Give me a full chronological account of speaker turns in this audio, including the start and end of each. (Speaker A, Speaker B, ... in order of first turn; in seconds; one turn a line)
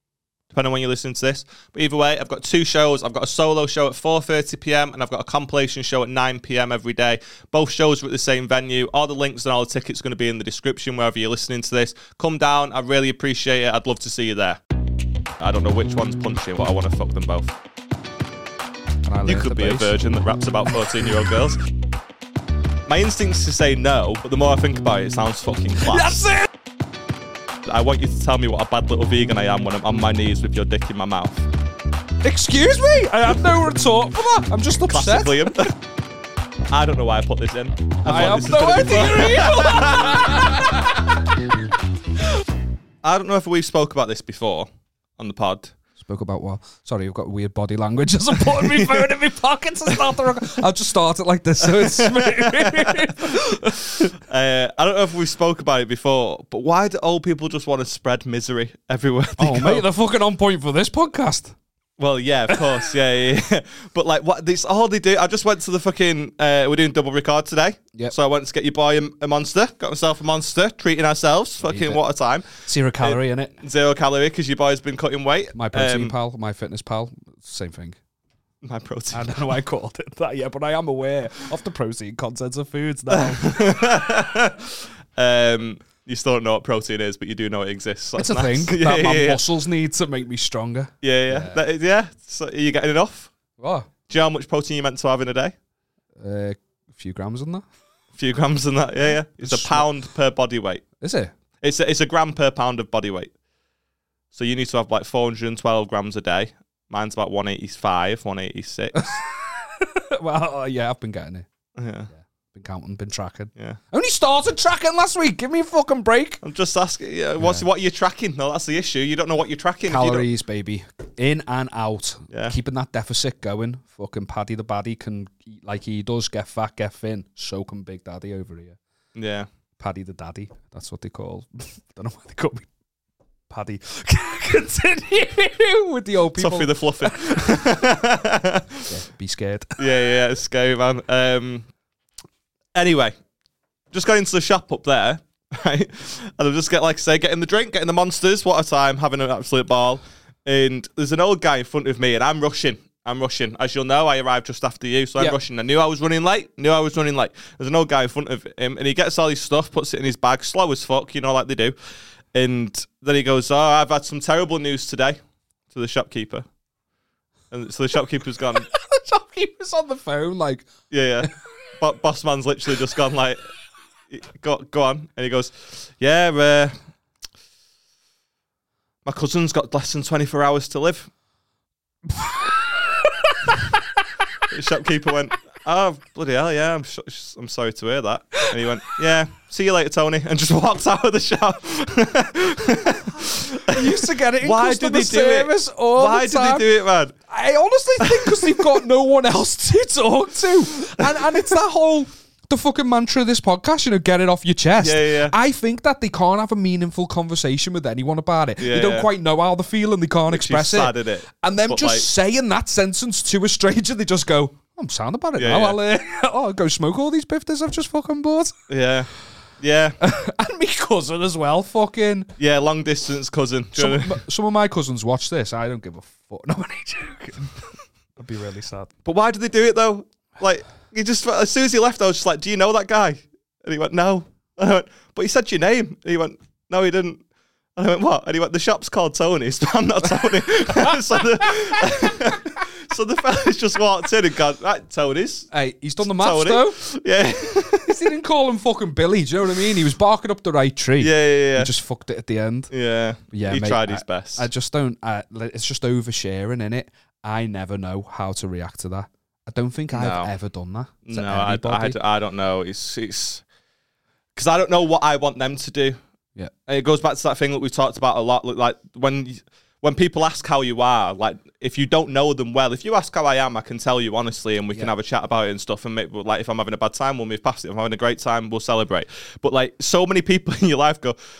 Speaker A: 0.5-14.6
Speaker A: 15.4-17.6
Speaker B: 19.0-20.0
Speaker A: 19.2-21.6
Speaker A: 22.9-26.2
Speaker B: 25.8-26.5
Speaker A: 27.6-31.5
Speaker B: 32.2-35.6
Speaker A: 34.9-35.7
Speaker A: 36.7-40.6
Speaker B: 38.0-41.2
Speaker A: 43.0-45.7
Speaker B: 46.0-54.1
Speaker A: 48.5-49.1
Speaker A: 51.6-59.9
Speaker B: 59.4-61.5
Speaker A: 62.0-76.1
Speaker B: 71.6-72.0
Speaker B: 72.5-73.5
Speaker B: 75.5-78.0
Speaker A: 78.6-79.3
Speaker B: 79.1-84.0
Speaker A: 83.1-89.4
Speaker B: 88.2-91.6
Speaker A: 91.0-93.3
Speaker B: 93.6-93.9
Speaker A: 94.1-95.5
Speaker B: 96.2-97.7
Speaker A: 98.1-100.8
Speaker B: 99.0-99.9
Speaker B: 101.0-101.3
Speaker A: 101.6-103.3
Speaker A: 104.3-109.1
Speaker B: 108.9-111.5
Speaker A: 111.8-112.1
Speaker B: 112.1-116.4
Speaker A: 116.4-120.3
Speaker B: 117.4-117.7
Speaker B: 119.9-128.8
Speaker A: 122.3-122.6
Speaker A: 129.1-129.5
Speaker B: 129.8-132.7
Speaker B: 133.5-137.6
Speaker A: 136.4-138.9
Speaker B: 138.8-139.8
Speaker A: 139.8-141.7
Speaker A: 142.7-143.1
Speaker A: 143.9-161.8
Speaker A: 162.3-165.2
Speaker A: 165.7-166.4
Speaker A: 167.5-168.7
Speaker B: 168.5-170.7
Speaker A: 170.9-173.4
Speaker A: 174.1-176.7
Speaker A: 179.0-181.1
Speaker B: 182.1-183.8
Speaker A: 184.5-197.1
Speaker B: 193.2-196.7
Speaker B: 197.2-218.6
Speaker A: 198.0-198.8
Speaker A: 201.1-201.4
Speaker A: 204.8-205.3
Speaker A: 208.6-209.1
Speaker A: 210.3-212.1
Speaker A: 215.4-215.8
Speaker A: 218.7-220.0
Speaker B: 220.0-222.3
Speaker A: 222.4-224.2
Speaker B: 223.8-228.9
Speaker A: 229.0-237.2
Speaker A: 237.8-245.5
Speaker B: 241.4-242.3
Speaker B: 245.5-246.8
Speaker A: 246.0-248.1
Speaker B: 247.8-252.7
Speaker A: 251.0-251.7
Speaker A: 252.7-254.5
Speaker B: 253.3-262.0
Speaker A: 259.9-260.3
Speaker A: 261.0-263.4
Speaker A: 264.4-266.0
Speaker A: 266.6-281.2